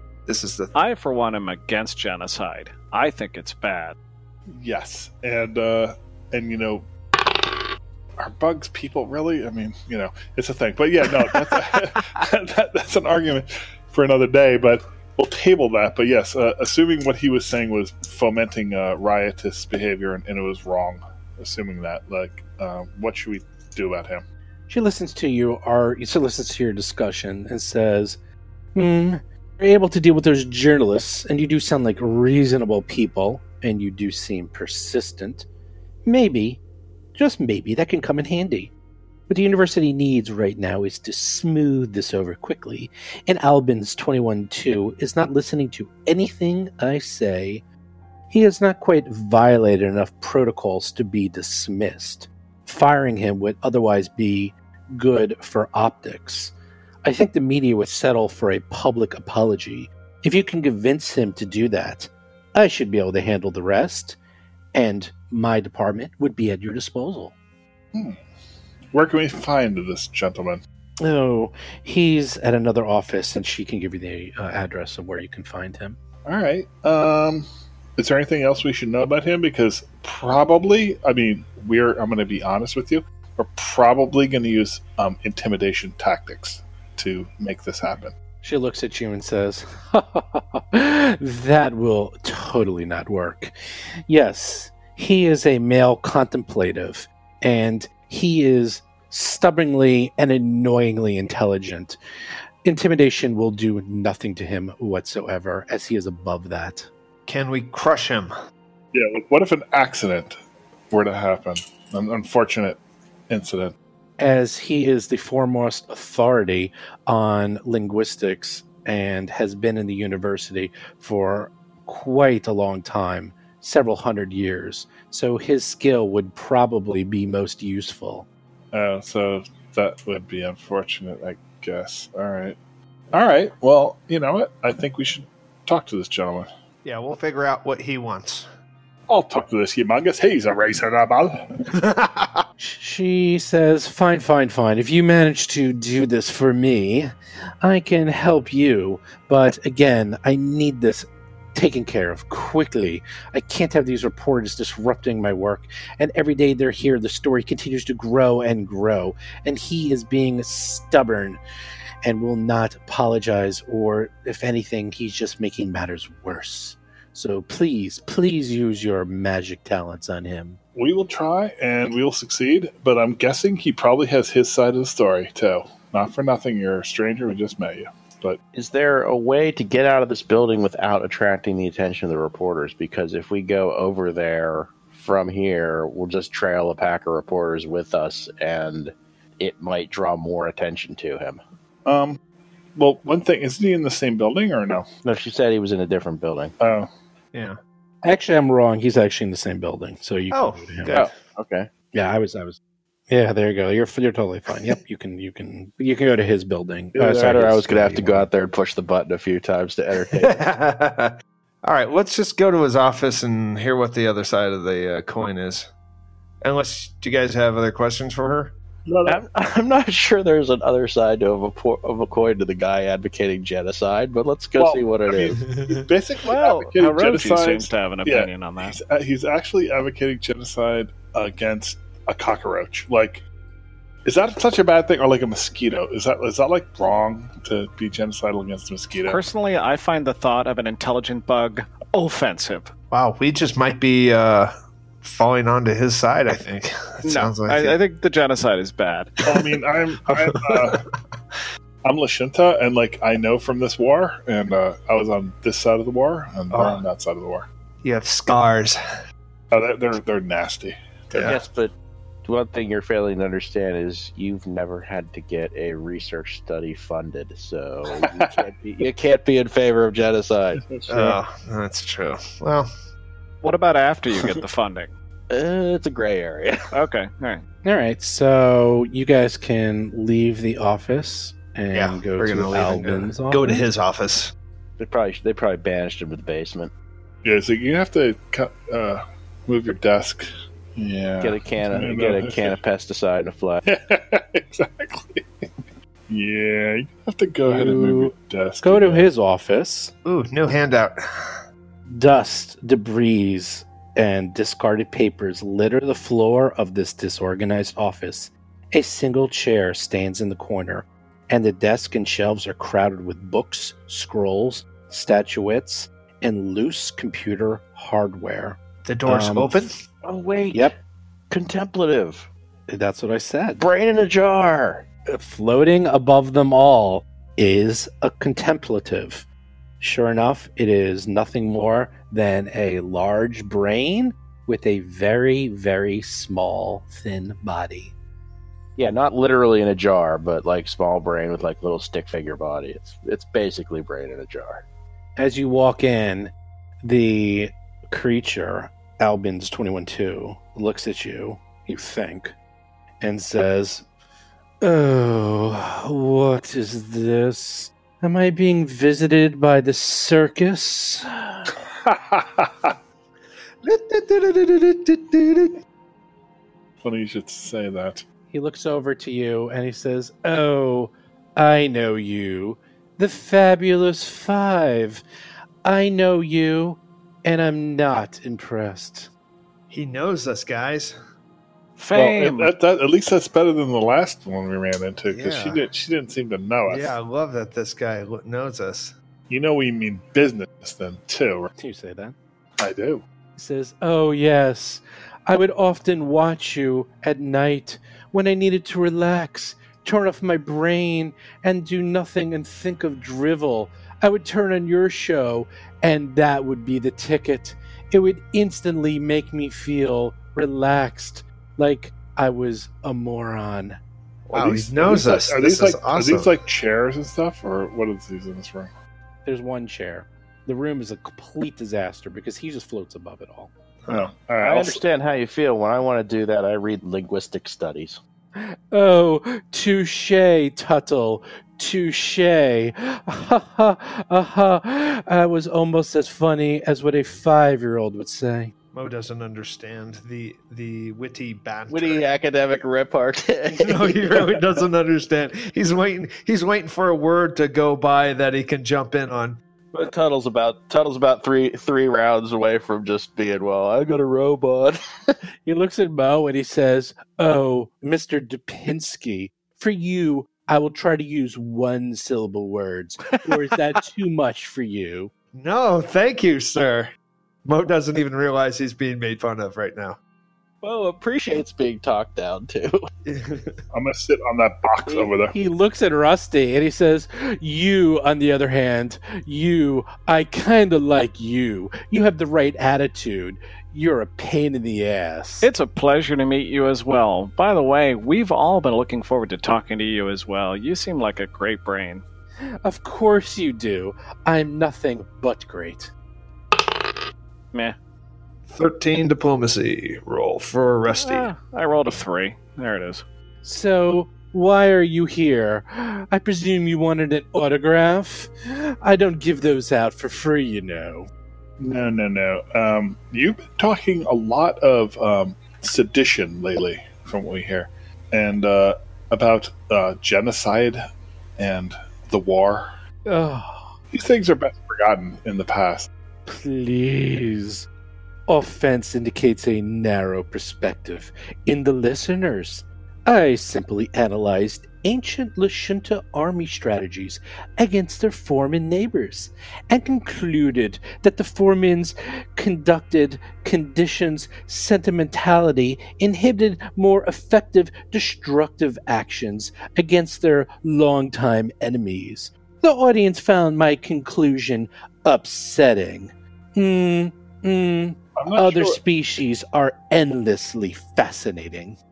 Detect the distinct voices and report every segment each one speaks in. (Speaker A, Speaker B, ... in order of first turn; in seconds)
Speaker A: 0.2-0.7, 107.3-108.3, 136.8-138.5, 141.8-142.4, 197.3-197.6, 200.3-201.2, 207.7-208.2, 210.1-211.1, 211.6-215.7, 216.4-218.5, 225.5-225.9, 242.9-247.8, 250.1-250.8, 256.5-256.8, 257.8-258.8, 261.1-261.4, 270.9-272.7, 281.7-284.3, 300.0-301.4, 318.8-319.8, 363.6-365.6, 379.7-380.9, 385.1-385.6, 386.7-388.9, 414.3-416.4, 423.9-424.1, 438.7-442.1, 443.6-449.4, 465.3-466.9, 467.4-470.0, 473.0-473.6, 498.5-501.3
Speaker B: 0.7-4.0, 226.3-228.8, 239.0-242.7, 247.0-249.3, 273.4-274.9, 276.7-277.4, 381.8-382.5, 485.4-492.0, 500.9-503.0
Speaker C: 4.5-6.9, 8.2-24.2, 67.9-68.2, 68.9-70.6, 76.2-88.1, 108.9-110.4, 110.9-113.7, 128.7-132.6, 133.1-136.5, 139.1-141.4, 170.8-178.4, 191.8-192.2, 192.8-194.9, 196.6-196.9, 218.8-219.2, 224.6-233.2, 234.0-239.2, 249.2-250.8, 251.8-257.5, 259.5-261.4, 268.0-268.3, 270.6-271.1, 287.2-292.6, 293.6-295.5, 296.1-299.1, 361.8-362.7, 366.8-368.0, 381.9-386.9, 389.3-391.5, 392.6-393.0, 414.8-418.7, 423.9-424.8, 473.7-475.3, 511.6-520.8, 521.4-522.7, 523.9-525.9, 558.1-558.8
Speaker D: 24.7-28.2, 28.7-35.5, 36.0-36.6, 37.1-38.7, 39.3-47.6, 48.3-56.5, 57.0-64.2, 64.7-67.3, 71.0-76.0, 88.4-93.5, 94.1-102.0, 102.6-106.9, 114.2-128.3, 142.6-161.4, 162.0-170.6, 198.0-200.9, 201.9-202.6, 203.1-208.2, 277.6-283.7, 297.5-299.9, 301.9-319.7, 322.7-323.6, 325.1-329.2, 329.8-337.9, 345.2-352.3, 353.0-353.9, 354.6-361.5, 368.3-375.0, 375.6-379.1, 391.6-392.1, 393.4-413.8, 419.2-423.5, 428.4-438.5, 455.4-465.1, 475.3-485.5, 492.6-495.9, 503.4-511.1, 523.1-523.7, 526.2-527.7, 528.3-561.8
Speaker E: 178.5-191.4, 195.0-196.5, 200.9-201.7, 206.9-210.4, 219.1-225.5, 261.2-261.7, 262.2-270.6, 275.3-276.7, 284.8-286.7, 291.2-293.6, 320.0-320.8, 321.3-322.3, 323.6-324.9, 338.8-344.6, 414.3-415.0, 424.4-428.0, 441.7-444.4, 449.7-455.1, 470.6-472.9